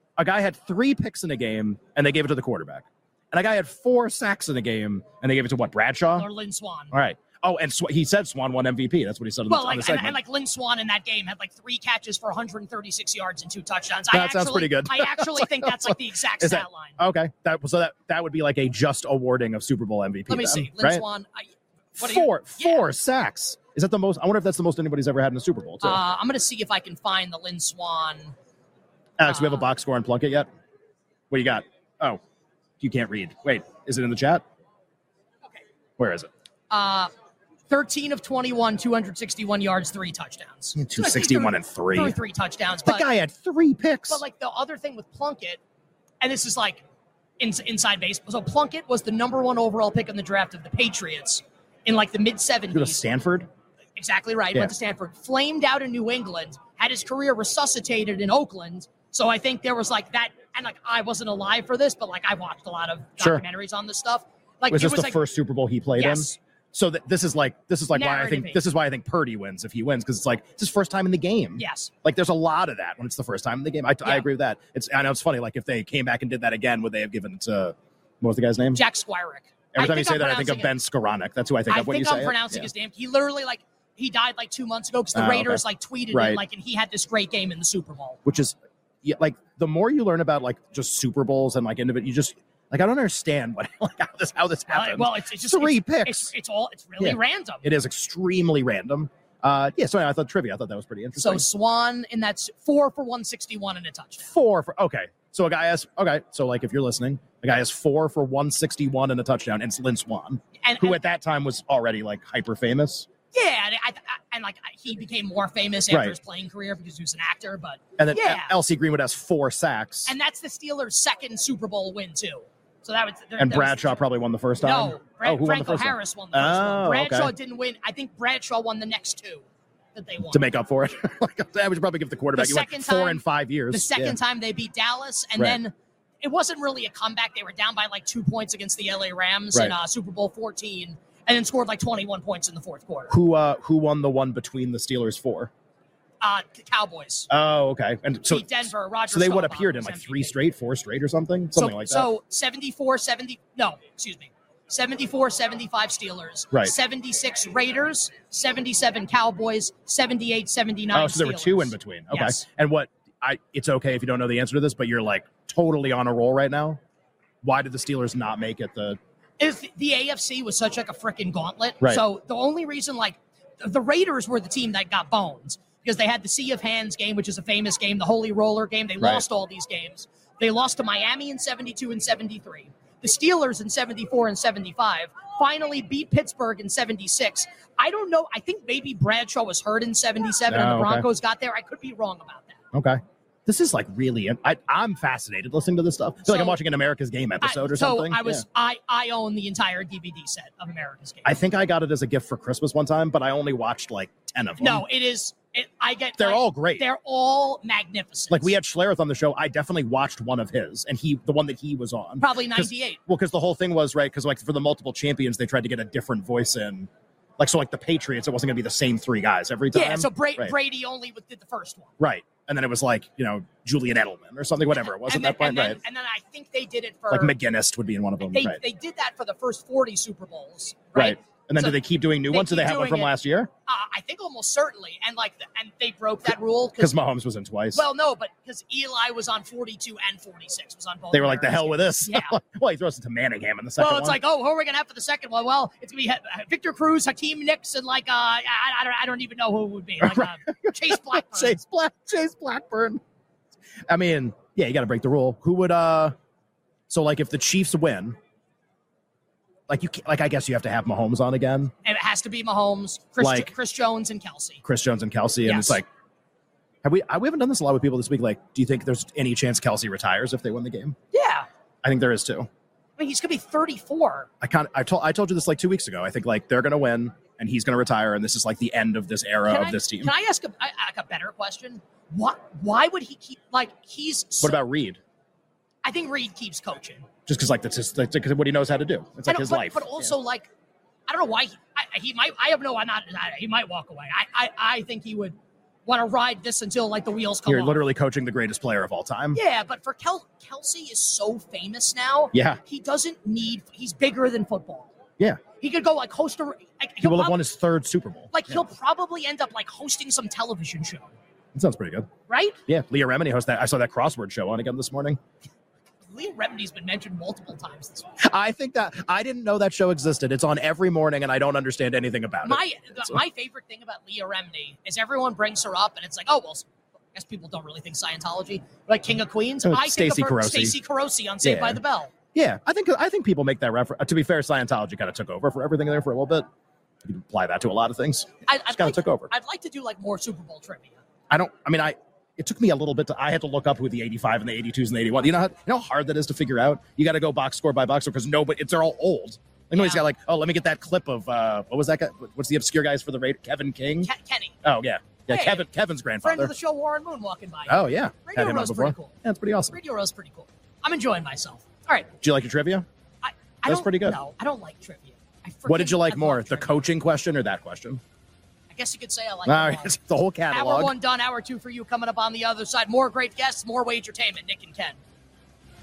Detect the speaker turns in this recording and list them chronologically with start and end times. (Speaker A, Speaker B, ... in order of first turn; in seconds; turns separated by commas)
Speaker A: 0.2-6.3, Speaker B: 6.2-6.9, Speaker A: 6.9-10.2, Speaker B: 9.5-17.0, Speaker A: 14.1-21.0, Speaker B: 20.3-22.9, Speaker A: 22.0-26.0, Speaker B: 25.8-28.4, Speaker A: 29.2-30.5, Speaker B: 29.3-29.7, Speaker A: 31.3-32.2, Speaker A: 32.8-34.4, Speaker A: 36.0-36.3, Speaker B: 36.7-37.1, Speaker B: 37.7-43.1, Speaker A: 40.8-42.2, Speaker A: 42.8-44.2, Speaker B: 44.1-45.6, Speaker B: 46.2-46.8, Speaker B: 47.4-53.0, Speaker A: 52.7-53.5, Speaker B: 54.0-65.2, Speaker A: 63.2-63.4, Speaker A: 64.7-78.8, Speaker B: 66.0-66.4, Speaker B: 67.9-68.6, Speaker B: 71.6-71.9, Speaker B: 78.7-80.8, Speaker A: 79.7-82.7, Speaker B: 81.7-88.2, Speaker A: 85.1-86.4, Speaker A: 88.2-96.3, Speaker B: 94.7-97.7, Speaker A: 97.0-101.5, Speaker B: 101.2-104.3, Speaker A: 104.2-113.1, Speaker B: 110.6-111.0, Speaker B: 113.3-118.5, Speaker A: 115.9-116.2, Speaker A: 118.0-120.1, Speaker B: 120.1-124.0, Speaker A: 123.4-127.3, Speaker B: 124.6-130.5, Speaker A: 130.3-134.2, Speaker B: 132.3-143.1, Speaker A: 143.1-145.5, Speaker B: 146.2-147.3, Speaker A: 147.3-152.1, Speaker B: 148.3-150.4, Speaker B: 151.6-162.4, Speaker A: 160.9-166.8, Speaker A: 167.4-169.0, Speaker B: 169.4-192.6, Speaker A: 190.5-191.1, Speaker A: 192.7-198.4, Speaker B: 196.3-196.6, Speaker B: 197.4-201.4, Speaker A: 201.2-204.8, Speaker B: 204.6-208.6, Speaker A: 206.2-206.8, Speaker A: 208.3-220.6, Speaker B: 212.2-213.0, Speaker B: 219.7-221.9, Speaker A: 222.0-225.8, Speaker B: 224.7-227.3, Speaker A: 227.1-228.6, Speaker B: 228.2-233.2, Speaker A: 230.9-233.5, Speaker B: 233.7-237.0, Speaker A: 236.8-237.9, Speaker B: 237.7-242.4, Speaker A: 241.1-244.2, Speaker B: 243.8-251.6, Speaker A: 250.0-253.0, Speaker A: 253.9-256.1, Speaker A: 256.9-258.2, Speaker A: 259.7-261.7, Speaker B: 261.9-264.6, Speaker A: 263.2-263.5, Speaker A: 264.6-265.9, Speaker B: 265.5-265.8, Speaker A: 266.8-271.0, Speaker B: 271.1-271.5, Speaker A: 271.8-272.5, Speaker B: 273.0-274.3, Speaker A: 274.4-280.1, Speaker B: 279.5-284.6, Speaker A: 284.4-285.0, Speaker B: 285.8-287.1, Speaker A: 287.3-290.1, Speaker B: 289.3-290.5, Speaker B: 291.1-297.8, Speaker A: 297.5-299.4, Speaker B: 299.3-304.9, Speaker A: 302.3-302.6, Speaker B: 305.6-307.4, Speaker A: 307.0-308.6, Speaker B: 308.3-311.1, Speaker A: 311.5-312.1, Speaker B: 312.3-312.6, Speaker A: 312.7-315.2, Speaker B: 316.1-318.1, Speaker A: 318.2-323.2, Speaker B: 322.4-332.1, Speaker A: 329.6-330.8, Speaker A: 331.4-331.8, Speaker A: 332.3-336.4, Speaker A: 337.1-339.3, Speaker B: 338.5-341.0, Speaker A: 341.3-354.1, Speaker B: 349.7-350.1, Speaker B: 354.0-354.6, Speaker A: 354.6-356.5, Speaker B: 355.3-355.7, Speaker B: 356.2-359.2, Speaker A: 357.7-359.8, Speaker B: 359.7-362.1, Speaker A: 362.2-362.9, Speaker B: 363.2-366.7, Speaker A: 363.6-364.2, Speaker A: 365.7-368.0, Speaker B: 368.7-369.9, Speaker A: 369.5-370.9, Speaker B: 370.5-375.0